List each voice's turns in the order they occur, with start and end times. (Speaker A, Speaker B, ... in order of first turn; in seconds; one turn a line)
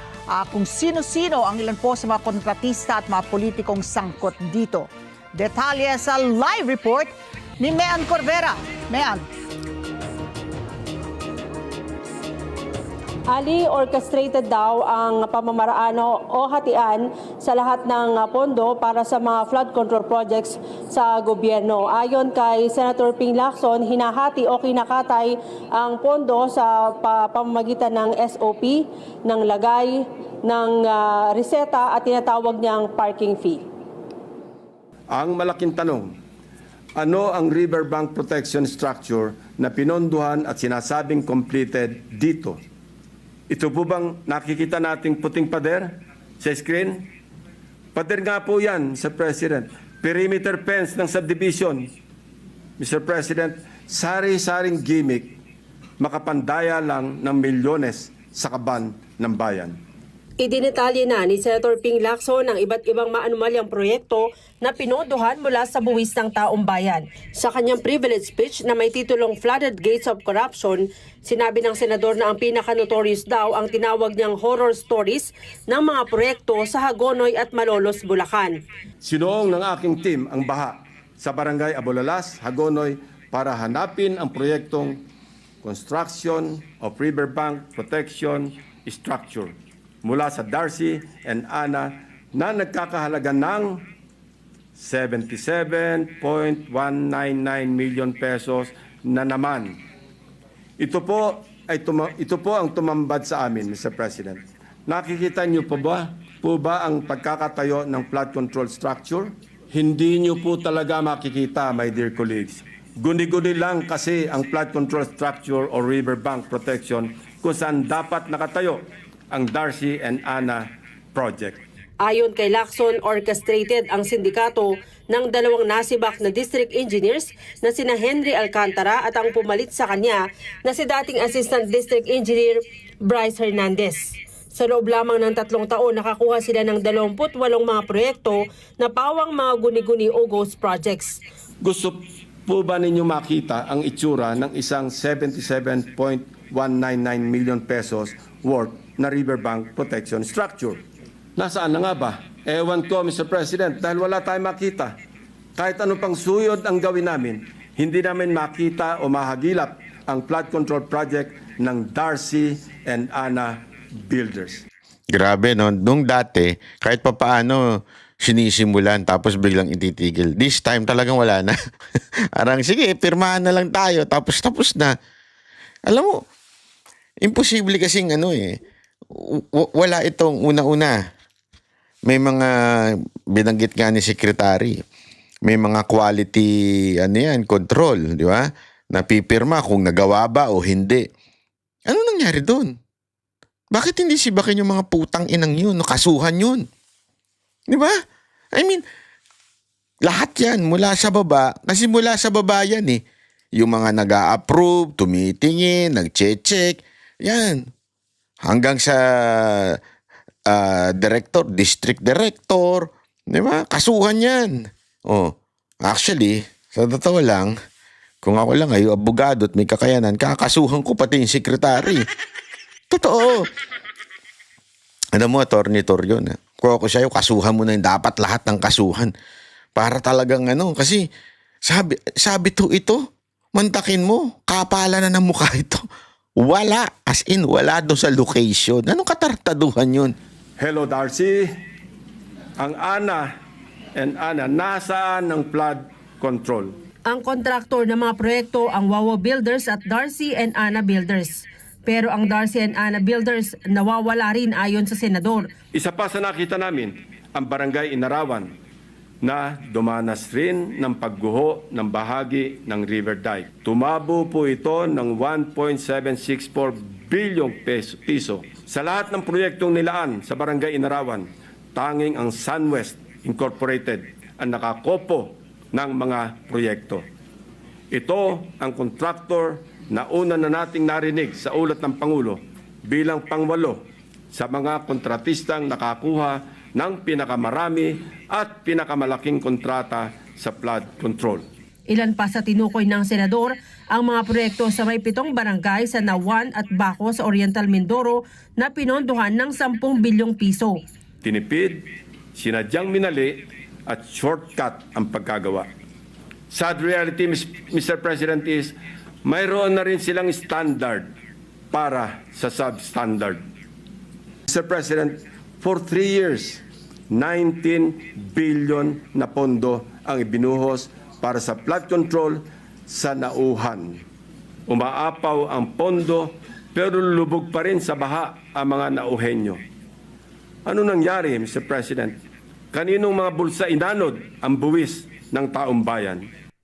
Speaker A: 0.3-9.3
Speaker B: 13.3-33.6
Speaker C: 35.1-36.1
Speaker C: 37.0-42.6
Speaker C: 43.5-47.1
Speaker C: 47.9-51.9
Speaker C: 52.8-55.4
Speaker C: 56.0-59.8
Speaker B: 60.4-78.6
Speaker C: 79.0-85.0
Speaker C: 85.6-93.8
Speaker C: 94.8-99.8
Speaker C: 100.8-121.6
Speaker B: 122.0-141.2
Speaker C: 141.6-150.8
Speaker C: 151.3-154.9
Speaker C: 155.6-164.6
Speaker D: 165.1-171.5
Speaker D: 172.3-174.9
Speaker D: 175.9-176.2
Speaker D: 177.2-178.6
Speaker D: 179.1-181.0
Speaker D: 182.1-184.8
Speaker D: 185.4-191.1
Speaker D: 191.9-192.8
Speaker D: 193.7-196.6
Speaker D: 197.7-197.9
Speaker D: 198.5-198.8
Speaker D: 200.0-203.0
Speaker D: 203.6-207.7
Speaker D: 208.4-209.8
Speaker D: 210.5-215.3
Speaker D: 215.8-217.5
Speaker D: 218.2-222.0
Speaker D: 222.9-223.5
Speaker D: 225.1-229.1
Speaker D: 229.8-231.1
Speaker D: 231.6-235.8
Speaker D: 236.4-240.1
Speaker C: 240.6-241.5
Speaker C: 242.6-243.3
Speaker C: 243.9-246.7
Speaker B: 247.1-255.5
Speaker C: 255.7-258.5
Speaker C: 259.2-277.1
Speaker C: 277.9-291.4
Speaker B: 291.9-300.8
Speaker C: 301.2-305.7
Speaker C: 306.5-311.1
Speaker C: 311.7-313.4
Speaker C: 314.5-324.0
Speaker C: 324.7-329.6
Speaker C: 330.6-332.1
Speaker C: 332.7-336.3